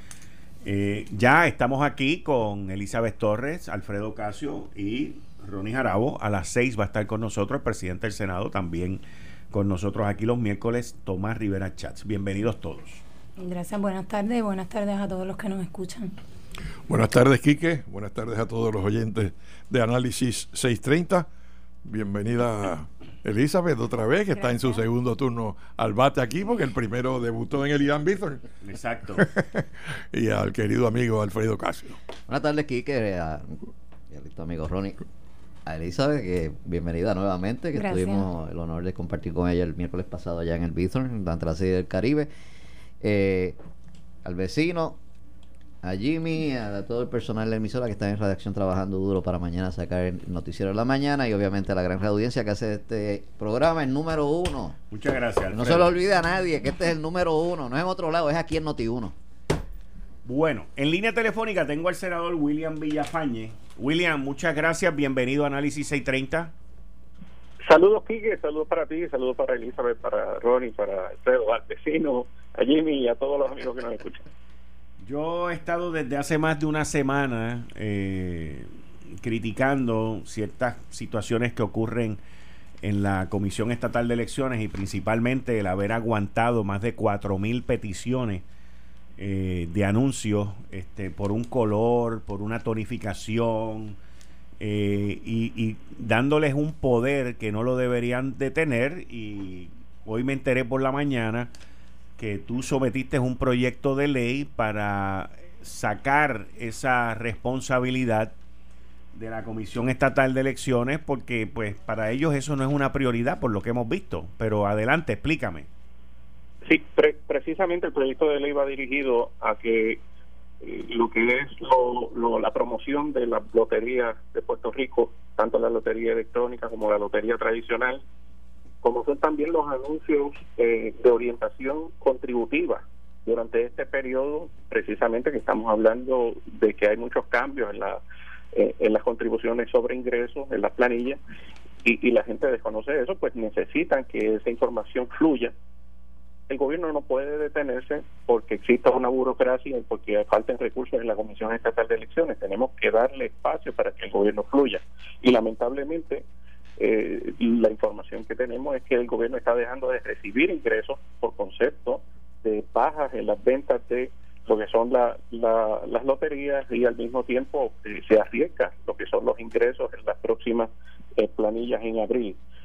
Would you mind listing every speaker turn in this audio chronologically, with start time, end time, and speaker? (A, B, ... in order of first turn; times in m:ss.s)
0:00.6-0:13.0 A
0:13.4-0:16.1 B
0:16.9-0:21.3 C
0:21.8-0:28.4 C
0:24.3-0:24.9 B
0:28.6-0:29.3 A
0:29.2-0:29.5 C
0:30.1-0:32.0 C
0:32.3-0:35.0 D
0:35.7-0:42.3 D
0:37.7-0:38.3 B
0:43.0-0:43.6 D
0:44.2-0:45.0 D
0:45.8-0:54.8 D
0:54.9-0:55.9 A
0:55.5-0:59.2 D
1:00.2-1:06.5 A
1:07.6-1:14.2 E
1:15.0-1:22.2 A
1:22.8-1:28.4 A
1:29.2-1:34.0 A
1:34.6-1:41.5 A
1:42.2-1:48.3 A
1:49.1-1:55.7 A
1:56.7-2:00.0 E
2:00.6-2:08.0 E
2:08.8-2:18.0 E
2:18.5-2:21.2 E
2:21.8-2:25.5 E
2:26.5-2:36.2 E
2:36.8-2:52.4 E